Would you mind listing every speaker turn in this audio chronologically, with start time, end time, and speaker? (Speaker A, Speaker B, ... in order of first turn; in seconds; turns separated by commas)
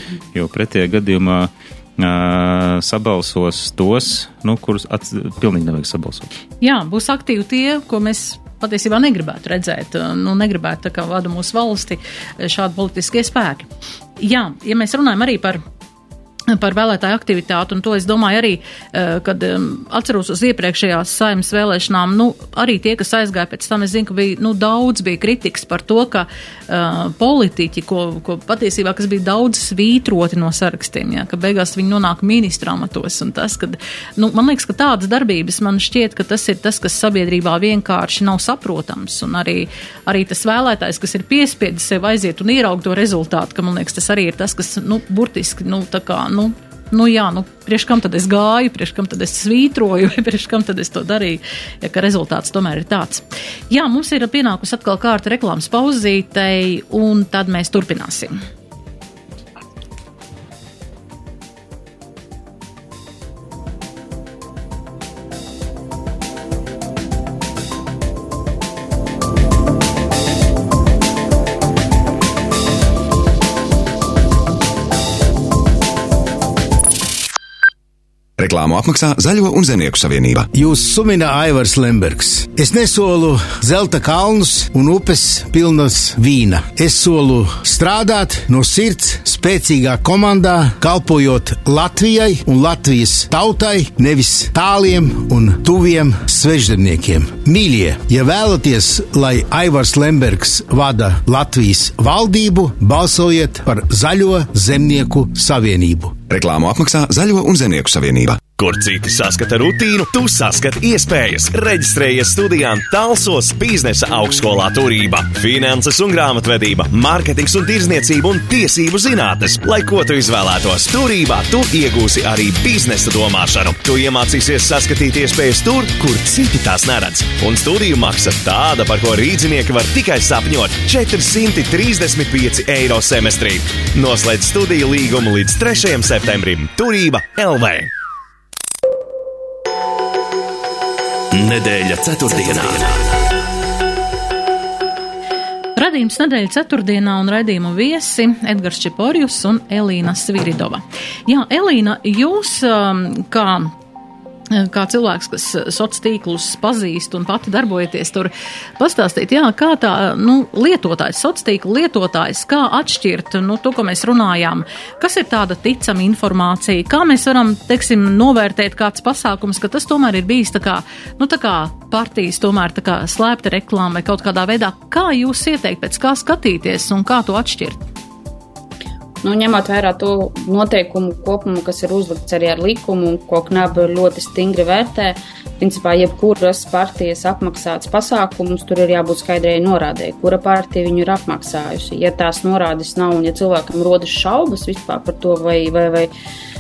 Speaker A: 0.3-6.3, Speaker B: 6.6-13.7, Speaker B: 14.2-15.6, Speaker B: 16.5-58.4, Speaker C: 78.4-80.5, Speaker D: 80.5-106.2, Speaker C: 106.3-108.4, Speaker E: 108.5-137.9, Speaker F: 141.3-143.3, Speaker B: 145.8-153.7, Speaker B: 154.5-177.8, Speaker G: 179.2-196.1